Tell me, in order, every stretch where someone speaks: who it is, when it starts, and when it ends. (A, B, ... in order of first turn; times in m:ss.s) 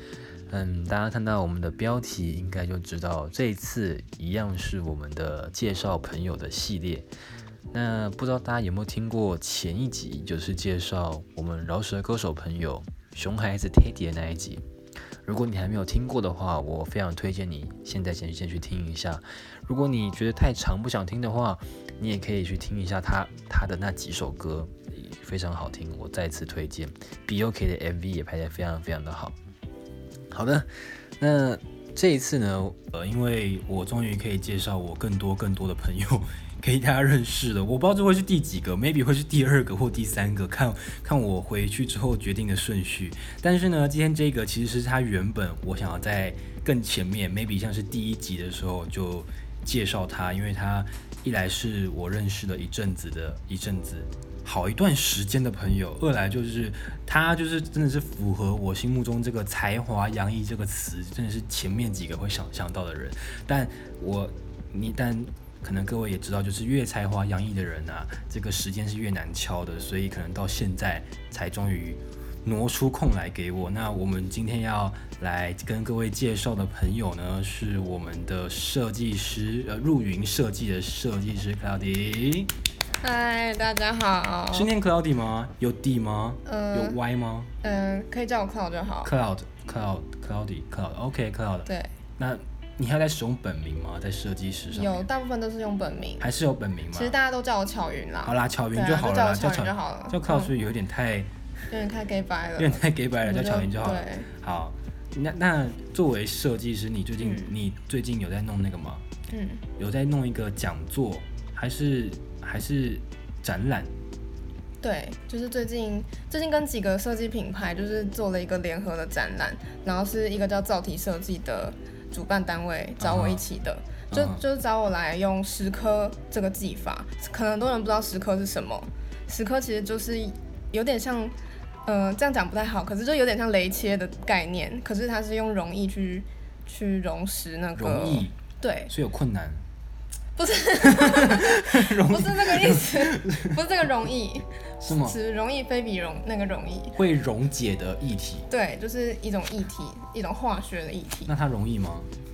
0:00.5-0:07.1 A
0:07.7-0:14.6 A
0:15.2-0:29.4 A
0:30.3-1:22.5 A
1:23.0-1:24.7 B
1:24.5-1:27.5 A
1:26.5-1:27.0 B
1:27.6-1:29.1 B
1:29.0-1:35.1 A
1:31.7-1:31.9 B
1:34.7-1:36.3 B
1:36.2-1:37.1 A
1:36.9-1:40.5 B
1:38.2-1:41.3 A
1:41.7-1:44.3 B
1:42.6-1:49.0 A
1:47.2-1:47.6 B
1:49.3-1:49.6 B
1:49.8-1:53.9 A
1:54.8-2:11.3 B
2:03.0-2:03.4 A
2:04.1-2:04.4 A
2:11.9-2:18.9 B
2:17.8-2:18.4 A
2:18.9-2:19.6 A
2:20.4-2:27.0 B
2:20.8-2:23.6 A
2:24.8-2:25.2 A
2:27.0-2:28.5 A
2:28.5-2:31.3 B
2:31.3-2:32.1 A